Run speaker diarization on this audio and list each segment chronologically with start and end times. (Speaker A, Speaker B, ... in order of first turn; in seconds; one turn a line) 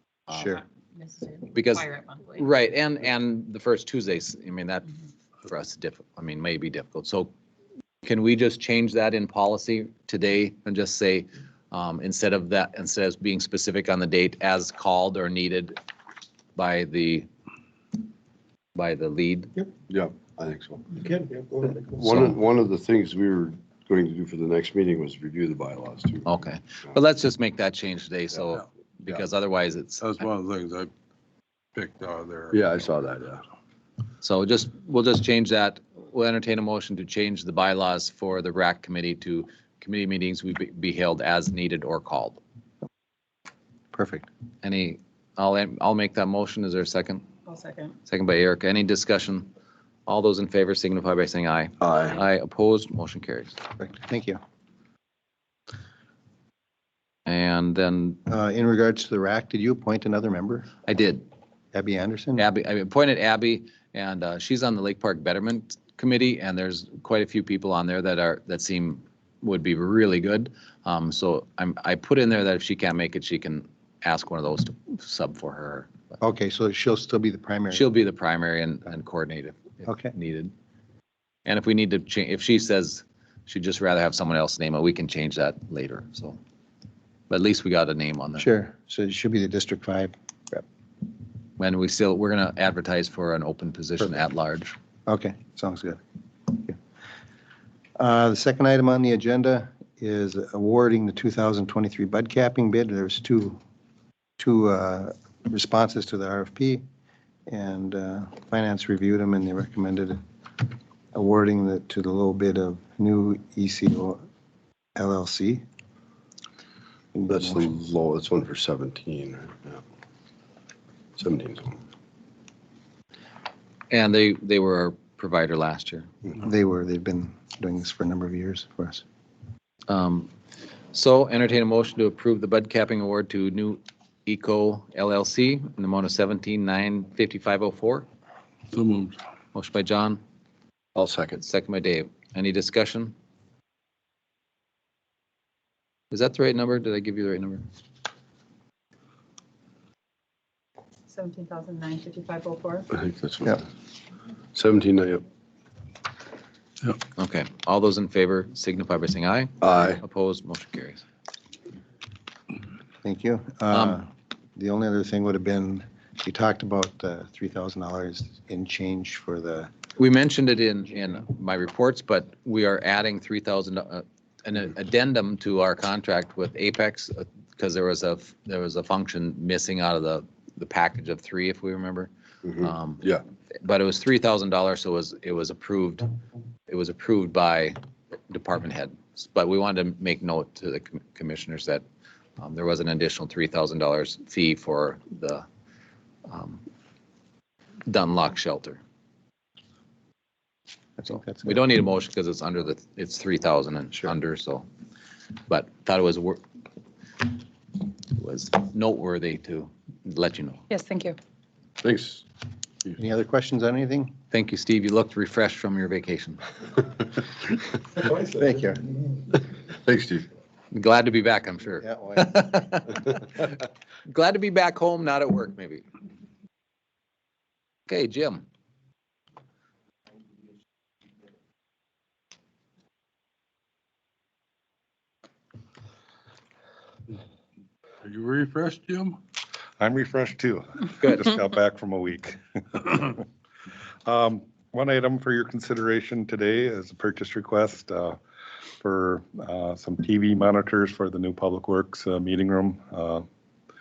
Speaker A: 0.3-0.6
Speaker B: 0.3-0.6
Speaker C: 1.0-2.2
Speaker A: 1.5-4.9
Speaker A: 5.5-7.3
Speaker A: 8.0-15.8
Speaker A: 16.6-17.3
Speaker A: 18.7-19.5
Speaker D: 19.9-26.4
Speaker A: 26.2-30.2
Speaker E: 30.0-30.9
Speaker E: 31.7-32.6
Speaker D: 32.5-33.4
Speaker A: 34.2-42.4
Speaker B: 43.9-44.3
Speaker A: 44.6-47.2
Speaker C: 47.5-48.0
Speaker A: 48.0-49.5
Speaker A: 50.0-53.5
Speaker D: 51.8-52.2
Speaker B: 53.8-54.4
Speaker A: 57.2-58.2
Speaker B: 58.3-60.7
Speaker A: 60.9-61.2
Speaker B: 61.7-62.5
Speaker A: 62.4-75.9
Speaker B: 76.2-77.8
Speaker A: 77.7-80.5
Speaker B: 79.8-80.1
Speaker A: 81.5-86.4
Speaker A: 87.3-88.5
Speaker B: 88.4-90.6
Speaker A: 91.6-94.7
Speaker B: 95.1-96.8
Speaker B: 98.0-103.6
Speaker B: 104.4-106.8
Speaker B: 107.5-110.2
Speaker B: 111.1-114.2
Speaker B: 115.0-115.6
Speaker B: 117.1-117.7
Speaker D: 117.3-119.8
Speaker D: 121.2-121.8
Speaker A: 123.9-126.1
Speaker B: 126.4-129.0
Speaker A: 129.9-130.3
Speaker A: 130.9-138.1
Speaker E: 138.7-139.1
Speaker A: 139.5-140.2
Speaker D: 140.9-141.4
Speaker A: 141.4-143.1
Speaker A: 146.1-147.6
Speaker C: 151.1-152.9
Speaker D: 152.9-153.7
Speaker D: 154.5-155.2
Speaker A: 157.1-161.0
Speaker D: 159.6-160.0
Speaker B: 163.0-169.7
Speaker A: 169.9-183.1
Speaker D: 182.4-183.2
Speaker A: 183.6-186.1
Speaker A: 186.7-187.8
Speaker A: 188.3-191.8
Speaker A: 192.4-195.4
Speaker A: 196.2-196.6
Speaker A: 197.9-198.8
Speaker B: 201.0-201.6
Speaker A: 201.4-204.7
Speaker A: 205.5-206.4
Speaker A: 208.1-210.6
Speaker C: 210.7-211.2
Speaker D: 211.8-212.2
Speaker B: 213.0-214.1
Speaker A: 214.3-216.4
Speaker B: 217.9-218.8
Speaker D: 219.3-220.3
Speaker A: 220.7-225.8
Speaker B: 221.8-222.5
Speaker A: 227.9-228.4
Speaker E: 238.0-239.2
Speaker F: 239.8-243.2
Speaker F: 244.1-248.2
Speaker F: 248.8-253.2